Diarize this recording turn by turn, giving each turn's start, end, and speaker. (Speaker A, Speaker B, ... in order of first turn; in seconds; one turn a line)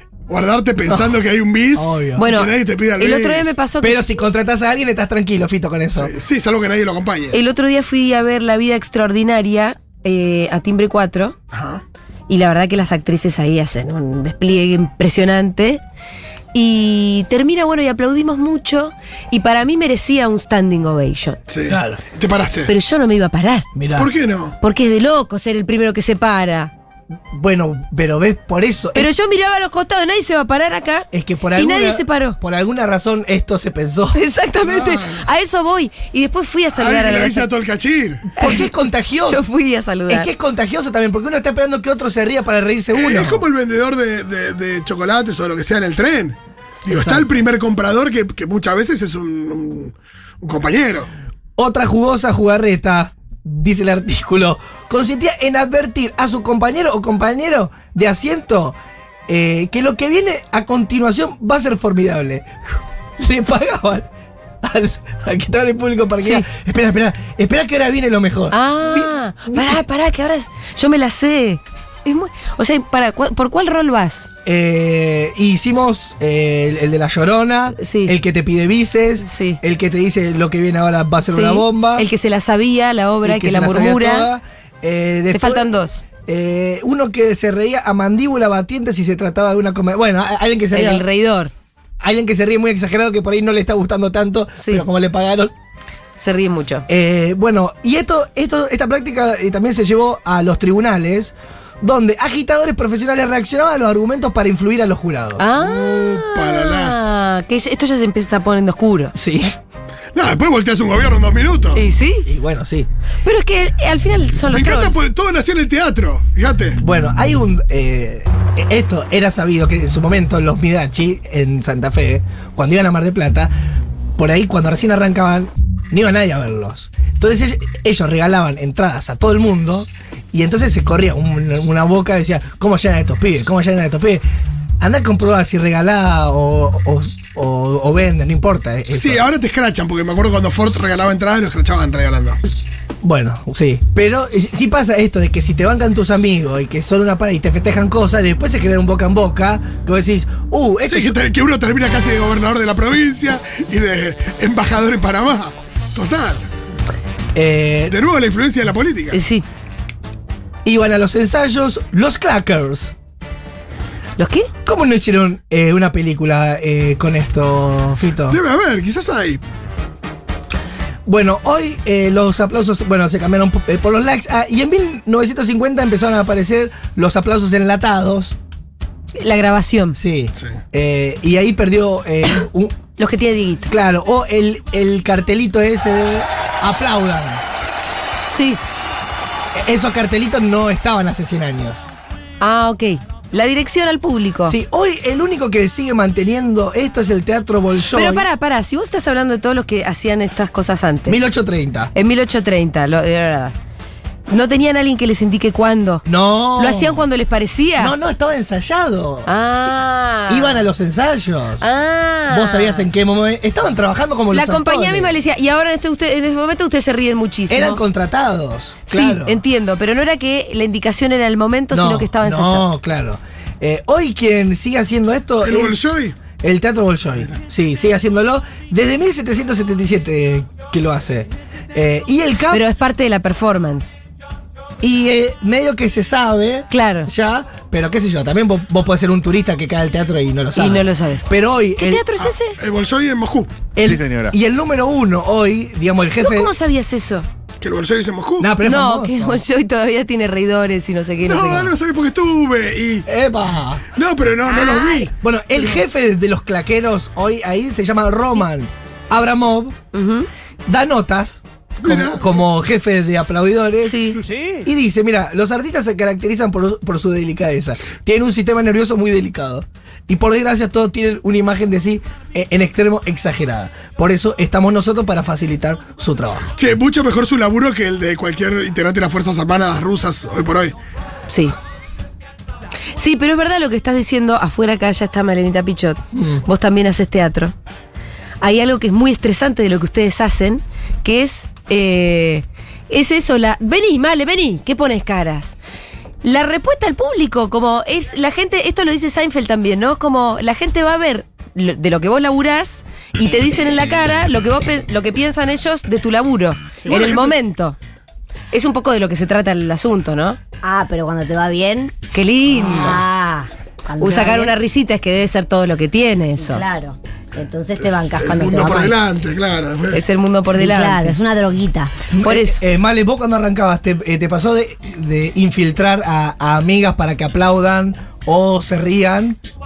Speaker A: 0.3-3.6
Speaker B: 0.8-1.1
Speaker B: 1.7-2.3
Speaker C: 2.1-4.2
Speaker B: 3.8-6.1
Speaker A: 5.9-7.4
Speaker C: 7.3-11.4
Speaker A: 11.5-11.8
Speaker C: 12.3-15.8
Speaker C: 16.5-21.4
Speaker A: 21.5-22.7
Speaker B: 21.7-22.0
Speaker C: 22.6-23.6
Speaker B: 23.8-24.1
Speaker A: 24.0-24.6
Speaker C: 24.6-26.7
Speaker B: 27.3-29.1
Speaker C: 28.9-32.4
Speaker B: 31.1-34.2
Speaker C: 34.1-37.5
Speaker A: 34.6-35.3
Speaker A: 36.7-38.2
Speaker B: 38.4-39.4
Speaker C: 38.4-40.3
Speaker B: 40.1-43.5
Speaker A: 42.9-51.1
Speaker B: 46.9-47.2
Speaker B: 51.6-58.8
Speaker B: 59.3-62.5
Speaker B: 63.2-64.1
Speaker B: 64.6-69.8
Speaker C: 66.2-66.5
Speaker C: 68.5-74.3
Speaker B: 74.5-82.1
Speaker C: 77.8-78.2
Speaker C: 79.2-79.6
Speaker C: 81.2-84.3
Speaker B: 83.2-85.7
Speaker C: 85.3-86.0
Speaker B: 86.2-91.0
Speaker C: 90.7-91.5
Speaker B: 92.0-95.5
Speaker C: 94.6-94.9
Speaker C: 96.2-96.9
Speaker B: 96.9-105.5
Speaker C: 105.4-109.1
Speaker A: 105.6-107.0
Speaker B: 109.1-109.5
Speaker A: 110.1-111.8
Speaker C: 111.8-112.3
Speaker B: 112.2-112.9
Speaker C: 113.2-115.0
Speaker A: 114.5-116.8
Speaker B: 116.8-123.5
Speaker B: 124.2-134.2
Speaker B: 134.8-139.2
Speaker A: 138.9-142.4
Speaker B: 143.0-151.2
Speaker A: 150.9-156.4
Speaker B: 157.3-157.9
Speaker A: 157.9-159.2
Speaker C: 159.1-159.4
Speaker B: 160.6-162.9
Speaker C: 164.2-164.5
Speaker B: 164.6-168.4
Speaker A: 168.3-169.4
Speaker B: 171.1-178.4
Speaker C: 179.2-180.0
Speaker B: 179.9-182.8
Speaker C: 183.0-183.7
Speaker B: 183.7-187.4
Speaker C: 188.3-188.6
Speaker B: 189.5-191.9
Speaker C: 192.4-194.6
Speaker B: 194.4-198.3
Speaker C: 197.9-201.3
Speaker B: 201.1-201.9
Speaker C: 201.9-203.5
Speaker C: 204.3-206.0
Speaker B: 206.1-207.0
Speaker C: 206.6-207.9
Speaker B: 207.8-209.3
Speaker C: 209.2-210.7
Speaker B: 210.3-211.6
Speaker C: 211.6-212.9
Speaker B: 212.3-215.2
Speaker C: 214.3-217.8
Speaker B: 217.5-219.4
Speaker C: 218.9-222.7
Speaker B: 221.7-225.8
Speaker A: 225.4-226.2
Speaker B: 226.3-232.7
Speaker C: 232.5-233.9
Speaker B: 234.8-242.0
Speaker C: 236.7-237.1
Speaker C: 240.5-242.6
Speaker A: 242.2-243.7
Speaker B: 243.8-246.5
Speaker C: 246.2-247.3
Speaker A: 247.6-248.5
Speaker B: 248.4-249.4
Speaker C: 248.6-251.7
Speaker A: 251.2-253.1
Speaker B: 253.1-253.8
Speaker A: 253.9-255.8
Speaker D: 254.4-255.1
Speaker B: 255.1-259.8
Speaker C: 259.9-260.3
Speaker B: 260.7-276.5
Speaker A: 261.8-262.4
Speaker C: 263.8-264.2
Speaker A: 276.6-280.8
Speaker C: 281.3-281.5
Speaker C: 282.9-287.5
Speaker B: 286.1-286.4
Speaker C: 288.4-295.6
Speaker C: 296.2-307.8
Speaker A: 306.9-307.4
Speaker C: 308.5-310.4
Speaker D: 310.6-311.9
Speaker C: 312.1-313.0
Speaker D: 312.5-314.6
Speaker C: 314.0-316.6
Speaker D: 316.4-318.9
Speaker A: 317.8-320.0
Speaker C: 319.9-321.2
Speaker D: 320.5-321.9
Speaker B: 322.1-329.4
Speaker C: 322.2-322.6